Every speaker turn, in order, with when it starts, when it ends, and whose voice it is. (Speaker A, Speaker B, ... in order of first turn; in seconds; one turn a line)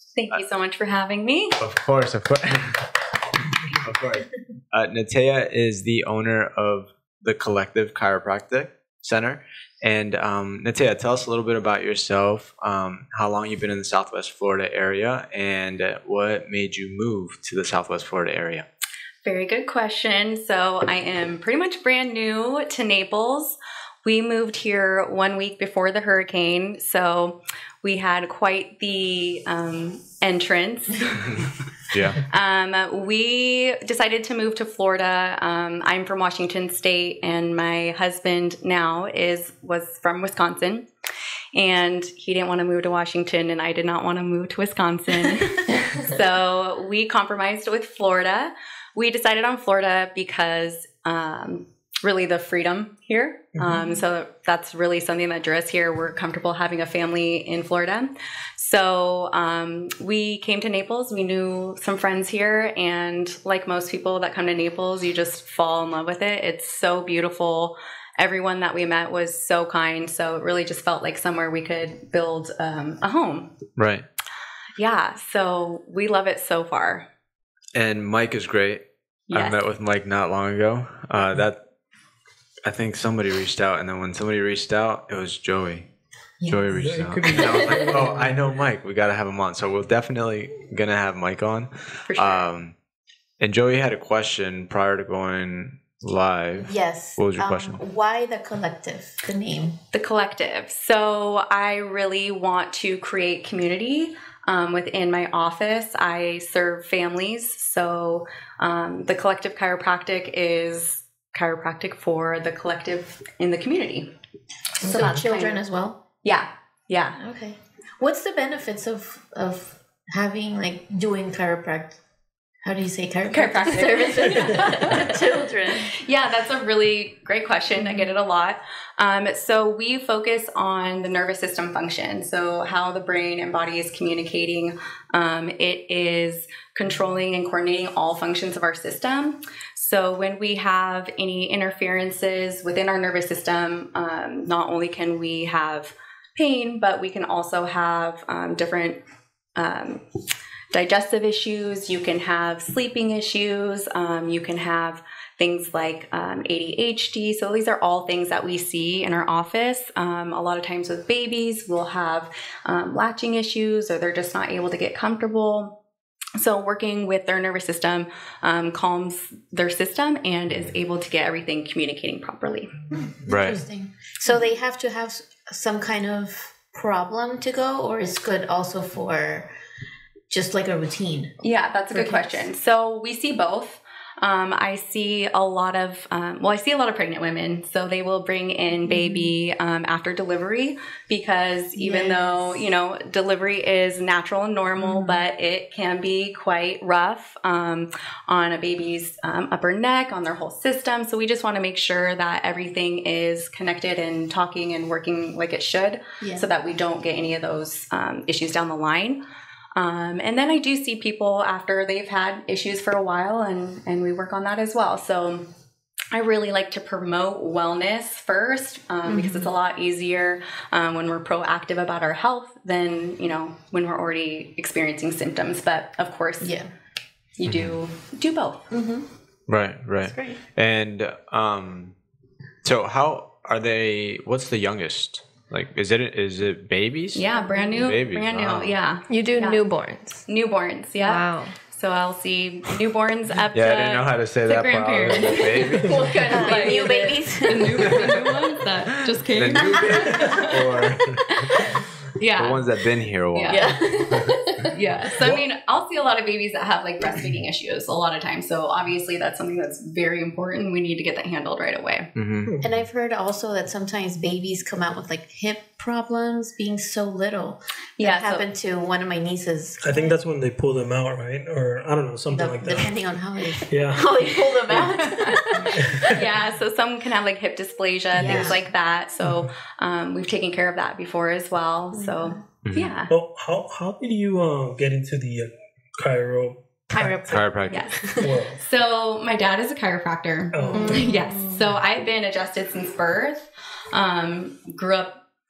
Speaker A: 0.2-1.6
Speaker B: 1.6-2.9
Speaker B: 3.7-18.7
Speaker A: 19.2-31.5
Speaker B: 31.9-32.2
Speaker A: 32.2-40.9
Speaker A: 41.5-73.5
Speaker C: 53.6-53.9
Speaker B: 73.8-74.1
Speaker A: 74.8-77.1
Speaker B: 77.8-81.6
Speaker A: 79.3-79.6
Speaker B: 82.7-85.9
Speaker D: 86.4-86.7
Speaker B: 86.5-92.7
Speaker C: 86.7-88.6
Speaker D: 87.3-87.9
Speaker A: 92.1-92.5
Speaker B: 93.4-97.8
Speaker D: 96.6-99.8
Speaker A: 99.9-114.1
Speaker A: 114.8-115.6
Speaker D: 114.8-116.0
Speaker A: 116.2-117.2
Speaker D: 117.2-122.0
Speaker D: 122.6-126.0
Speaker A: 123.3-125.2
Speaker A: 125.9-149.0
Speaker A: 149.6-150.0
Speaker A: 150.7-165.8
Speaker A: 166.4-172.7
Speaker D: 172.9-179.5
Speaker B: 173.3-173.6
Speaker D: 180.3-181.3
Speaker A: 181.4-209.2
Speaker D: 181.9-182.4
Speaker D: 188.9-189.3
Speaker D: 191.8-192.7
Speaker D: 194.8-195.2
Speaker D: 206.2-206.5
Speaker A: 209.8-215.5
Speaker A: 216.1-226.6
Speaker D: 219.1-219.5
Speaker D: 226.4-226.7
Speaker A: 227.4-228.7
Speaker B: 227.5-227.8
Speaker D: 228.7-229.1
Speaker B: 229.5-231.9
Speaker D: 230.0-230.4
Speaker B: 232.6-238.8
Speaker A: 237.2-239.6
Speaker D: 237.4-237.8
Speaker E: 239.1-240.3
Speaker A: 240.3-250.7
Speaker E: 241.0-241.6
Speaker B: 243.5-246.6
Speaker D: 245.9-248.1
Speaker B: 249.2-251.3
Speaker C: 249.9-250.4
Speaker A: 251.2-251.7
Speaker A: 252.2-252.6
Speaker B: 252.4-254.2
Speaker A: 253.3-253.8
Speaker D: 253.5-254.8
Speaker A: 254.7-262.1
Speaker C: 255.2-255.4
Speaker B: 262.1-262.5
Speaker C: 262.4-262.7
Speaker D: 262.6-270.0
Speaker A: 268.0-268.5
Speaker C: 269.8-273.0
Speaker D: 272.3-276.1
Speaker C: 273.7-274.9
Speaker A: 275.0-283.1
Speaker C: 275.6-276.2
Speaker C: 278.2-278.6
Speaker D: 278.2-278.6
Speaker C: 279.2-279.5
Speaker D: 281.9-282.4
Speaker B: 282.6-282.9
Speaker C: 283.1-287.4
Speaker D: 286.9-287.4
Speaker A: 286.9-295.2
Speaker B: 287.3-287.9
Speaker D: 287.9-288.3
Speaker C: 288.2-288.6
Speaker C: 290.5-291.2
Speaker D: 290.7-291.0
Speaker E: 290.7-291.6